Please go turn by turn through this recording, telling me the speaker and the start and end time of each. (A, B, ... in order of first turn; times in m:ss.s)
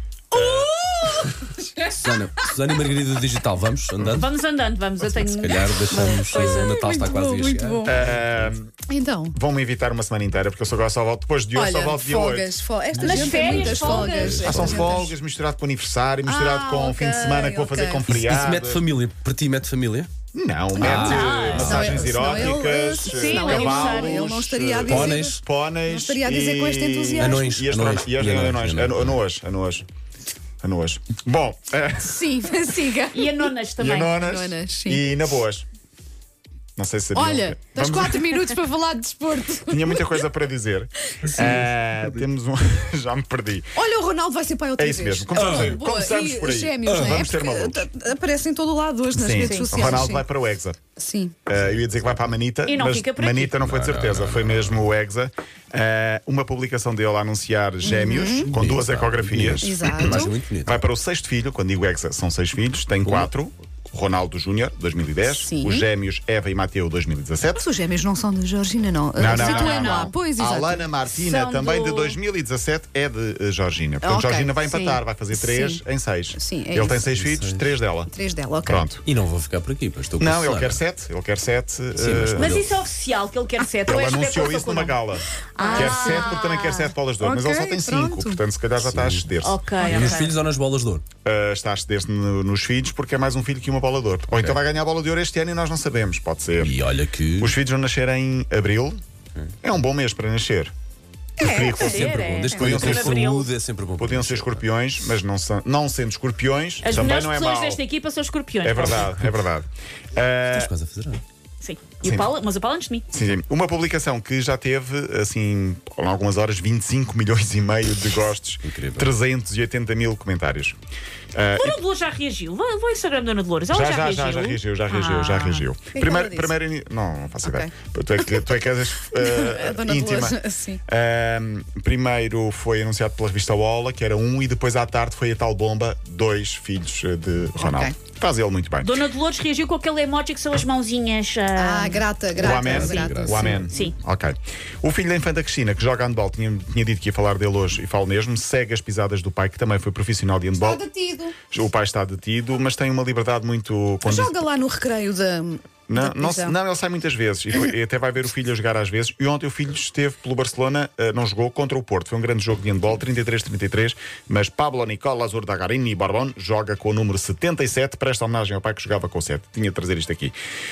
0:00.3-0:00.7 A
0:00.3-0:02.1 B
0:02.0-0:04.3 C
0:04.1-0:06.8 D
0:05.0-0:08.5 C
0:05.9-0:08.0 B
0:07.8-0:08.7 A
0:08.9-0:09.4 B
0:09.3-0:12.6 A
0:11.5-0:15.1 B
0:13.0-0:14.7 D
0:13.1-0:13.4 A
0:13.2-0:15.0 C
0:14.4-0:18.8 A
0:16.2-0:18.1 B
0:18.1-0:20.1 C
0:20.3-0:29.9 A
0:20.8-0:27.5 B
0:20.8-0:22.1 C
0:20.8-0:21.9 D
0:23.0-0:24.3 D
0:24.8-0:25.4 C
0:27.2-0:29.2 C
0:30.6-0:32.6 A
0:32.0-0:33.5 B
0:33.1-0:34.2 D
0:33.8-0:35.7 A
0:34.2-0:35.1 B
0:36.8-0:38.6 A
0:37.1-0:40.2 B
0:39.7-0:43.7 A
0:41.2-0:41.5 B
0:41.3-0:42.2 C
0:43.8-0:50.2 B
0:44.8-0:47.9 A
0:45.4-0:45.8 C
0:46.9-0:47.2 C
0:49.1-0:50.8 A
0:49.4-0:49.7 D
0:49.8-0:50.1 C
0:51.0-0:51.4 B
0:51.5-1:07.7 A
0:51.5-0:52.3 C
0:52.6-0:53.6 D
0:53.6-0:54.9 C
0:57.8-0:58.5 B
0:58.5-1:00.8 C
0:59.6-1:00.4 B
1:03.0-1:03.3 C
1:05.3-1:05.9 B
1:07.5-1:10.9 B
1:09.2-1:18.1 A
1:09.3-1:10.1 D
1:11.2-1:12.2 D
1:14.0-1:15.8 B
1:16.4-1:17.0 B
1:17.1-1:17.7 C
1:18.1-1:18.9 B
1:18.7-1:19.0 A
1:19.0-1:20.8 C
1:20.2-1:22.5 A
1:22.0-1:22.8 C
1:22.4-1:25.0 D
1:23.9-1:29.6 A
1:25.6-1:26.9 D
1:25.6-1:26.4 B
1:27.2-1:28.4 B
1:28.8-1:31.0 C
1:29.4-1:30.4 D
1:31.2-1:36.8 A
1:34.3-1:34.6 C
1:36.6-1:37.6 C
1:37.4-1:39.0 A
1:39.6-1:40.7 A
1:41.4-1:42.0 B
1:41.4-1:43.2 A
1:41.4-1:43.5 D
1:41.7-1:44.7 C
1:44.0-1:47.8 A
1:46.8-1:49.1 D
1:48.6-1:50.7 A
1:48.8-1:49.3 C
1:50.5-1:51.2 C
1:51.6-1:53.1 D
1:52.0-1:52.3 A
1:53.1-2:00.8 A
1:58.6-1:59.2 C
2:01.3-2:01.8 A
2:01.6-2:05.7 D
2:03.7-2:18.9 A
2:06.0-2:06.5 B
2:07.4-2:07.7 B
2:09.0-2:10.8 B
2:17.6-2:17.9 B
2:18.8-2:22.1 D
2:21.6-2:23.7 B
2:22.3-2:23.7 C
2:22.4-2:30.8 A
2:30.6-2:31.4 B
2:31.5-2:34.4 A
2:34.0-2:36.6 B
2:35.9-2:50.3 A